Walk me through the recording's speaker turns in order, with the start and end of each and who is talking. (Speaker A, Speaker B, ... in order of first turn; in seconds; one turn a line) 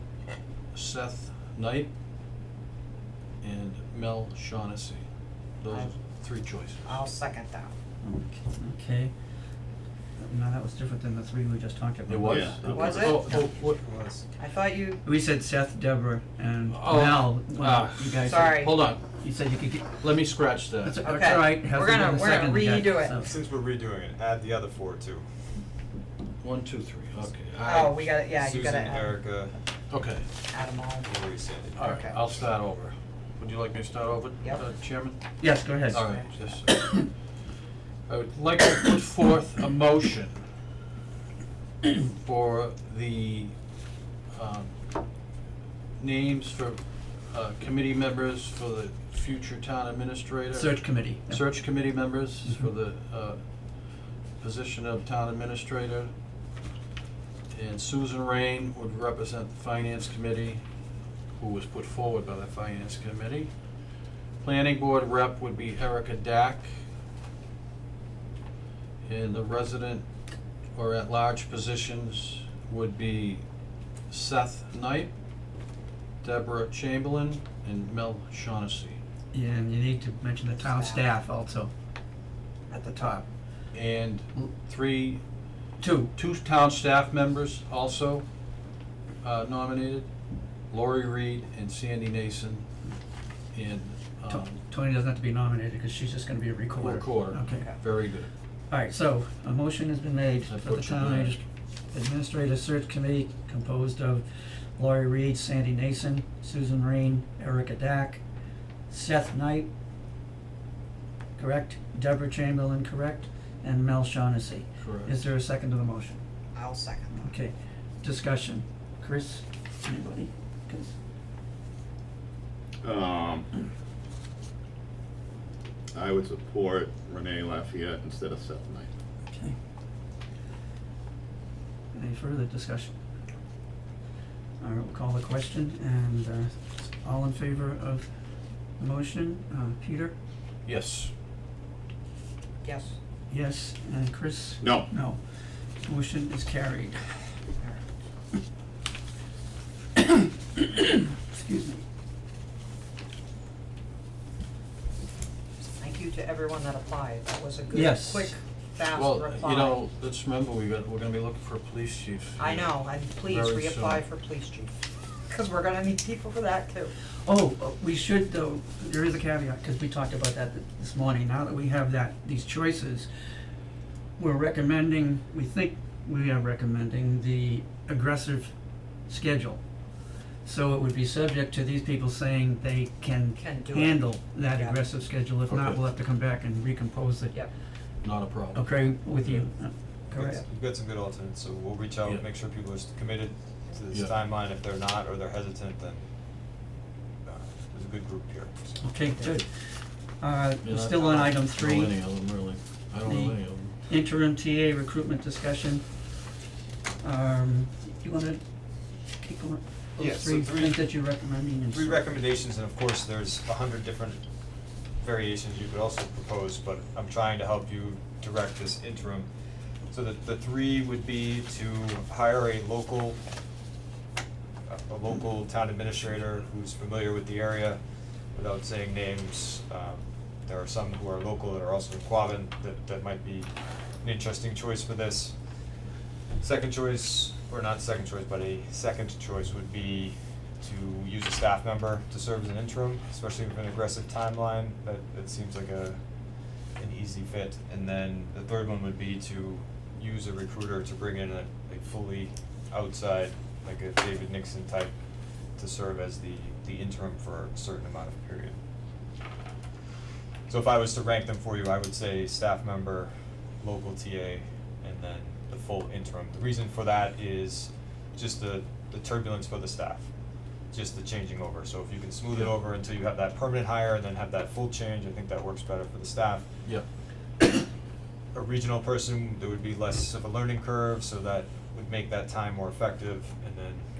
Speaker A: 0.7-1.9
Speaker A: 3.4-5.0
Speaker A: 5.6-7.0
Speaker B: 5.7-5.9
Speaker B: 6.8-7.7
Speaker C: 8.0-9.1
Speaker C: 10.2-12.8
Speaker A: 12.1-13.8
Speaker D: 12.3-13.1
Speaker E: 12.6-14.3
Speaker B: 12.7-13.3
Speaker B: 14.4-15.0
Speaker C: 15.0-20.0
Speaker A: 16.7-19.1
Speaker B: 18.2-18.8
Speaker A: 19.9-21.1
Speaker C: 20.8-23.3
Speaker B: 21.0-23.1
Speaker E: 23.1-25.2
Speaker A: 26.4-28.1
Speaker B: 27.6-29.1
Speaker E: 28.4-29.6
Speaker A: 29.9-30.3
Speaker B: 30.5-31.1
Speaker E: 31.0-31.9
Speaker A: 31.8-37.1
Speaker B: 31.8-32.2
Speaker C: 35.4-36.1
Speaker B: 35.9-36.5
Speaker A: 38.1-40.4
Speaker A: 41.9-43.6
Speaker A: 44.3-44.7
Speaker A: 46.0-56.1
Speaker C: 50.5-51.5
Speaker A: 57.5-60.6
Speaker A: 61.4-63.5
Speaker A: 64.4-66.8
Speaker A: 69.0-70.0
Speaker A: 70.7-73.4
Speaker A: 74.1-75.1
Speaker A: 76.2-79.0
Speaker C: 79.3-81.7
Speaker B: 80.5-81.1
Speaker C: 82.7-83.2
Speaker A: 83.7-85.2
Speaker C: 85.8-86.1
Speaker A: 86.1-88.2
Speaker A: 89.2-90.1
Speaker A: 90.7-92.7
Speaker A: 93.5-94.5
Speaker C: 94.3-97.8
Speaker A: 96.8-98.3
Speaker B: 97.5-97.8
Speaker C: 98.7-108.2
Speaker A: 100.5-101.3
Speaker C: 108.9-109.7
Speaker C: 111.4-116.2
Speaker A: 114.8-115.1
Speaker B: 116.5-117.1
Speaker C: 117.1-120.9
Speaker D: 122.8-123.5
Speaker D: 125.9-128.9
Speaker C: 129.3-129.6
Speaker C: 131.9-132.9
Speaker C: 134.6-138.1
Speaker C: 138.8-140.1
Speaker A: 140.6-141.1
Speaker B: 142.6-142.9
Speaker C: 143.3-145.2
Speaker D: 144.6-144.9
Speaker C: 145.8-147.0
Speaker C: 150.0-151.8
Speaker B: 155.8-159.8
Speaker C: 157.7-158.3
Speaker A: 158.9-164.0
Speaker B: 162.4-164.7
Speaker B: 165.3-166.9
Speaker C: 167.2-173.1
Speaker C: 174.2-178.5
Speaker C: 179.1-179.6
Speaker C: 180.4-187.4
Speaker B: 183.3-184.8
Speaker A: 185.5-185.8
Speaker A: 188.0-188.7
Speaker C: 188.5-190.4
Speaker E: 190.1-196.0
Speaker E: 197.2-198.9
Speaker C: 198.8-199.5
Speaker C: 200.2-202.0
Speaker A: 200.6-203.8
Speaker C: 203.0-205.8
Speaker C: 207.0-208.4
Speaker C: 209.2-212.1
Speaker E: 210.0-210.9
Speaker E: 211.7-214.2
Speaker E: 215.0-219.3
Speaker E: 219.9-223.2
Speaker E: 224.7-227.8
Speaker E: 228.3-233.5
Speaker E: 234.0-235.3
Speaker E: 236.4-246.0
Speaker E: 246.8-254.9
Speaker E: 255.6-258.6
Speaker E: 260.5-270.1
Speaker E: 270.7-276.5
Speaker E: 278.3-283.8